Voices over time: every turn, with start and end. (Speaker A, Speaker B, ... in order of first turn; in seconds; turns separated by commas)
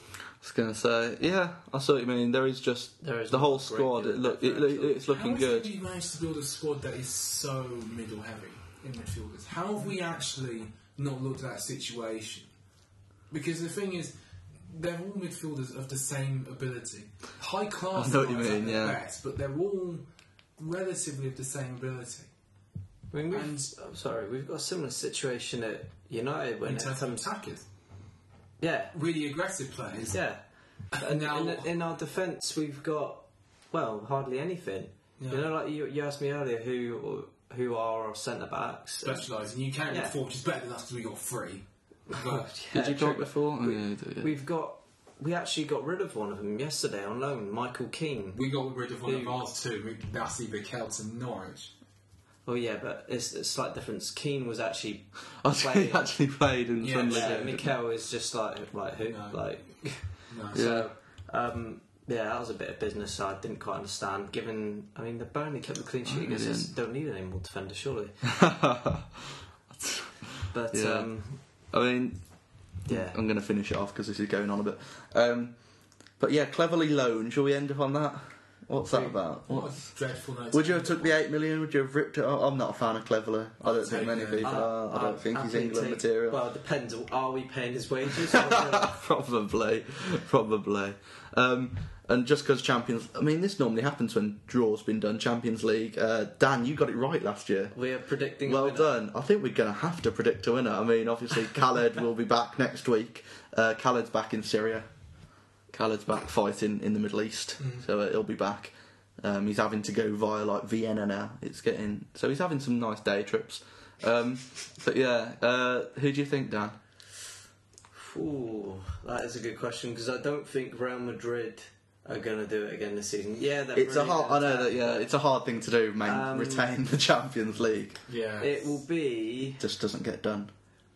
Speaker A: 0.4-5.7, Speaker B: 3.0-5.0, Speaker C: 5.0-12.5, Speaker C: 13.3-14.1, Speaker C: 14.7-20.0, Speaker A: 17.9-19.0, Speaker C: 20.6-22.3, Speaker B: 23.1-27.2, Speaker C: 23.3-23.7, Speaker C: 26.6-27.6, Speaker B: 28.6-28.9, Speaker C: 28.9-30.2, Speaker B: 30.0-39.3, Speaker C: 30.9-31.7, Speaker C: 35.2-35.5, Speaker C: 39.0-42.5, Speaker B: 39.9-40.1, Speaker B: 42.1-48.4, Speaker A: 42.7-44.3, Speaker C: 48.3-51.7, Speaker B: 49.0-49.4, Speaker B: 52.4-56.1, Speaker A: 55.4-57.8, Speaker C: 56.8-57.6, Speaker B: 57.1-68.3, Speaker C: 59.0-60.8, Speaker A: 60.5-60.9, Speaker A: 66.0-66.7, Speaker A: 68.3-69.2, Speaker A: 69.8-75.6, Speaker B: 70.5-71.4, Speaker B: 72.9-73.2, Speaker A: 76.1-80.0, Speaker B: 78.9-79.2, Speaker C: 79.4-81.2, Speaker A: 80.5-86.4, Speaker C: 83.6-84.6, Speaker B: 84.4-89.0, Speaker A: 88.4-97.8, Speaker B: 97.7-99.0, Speaker A: 98.4-104.9, Speaker A: 105.7-116.8, Speaker C: 107.6-107.9, Speaker B: 117.9-125.0, Speaker A: 123.7-128.0, Speaker B: 126.0-126.7, Speaker C: 128.1-128.7, Speaker B: 128.4-129.6, Speaker A: 129.6-130.5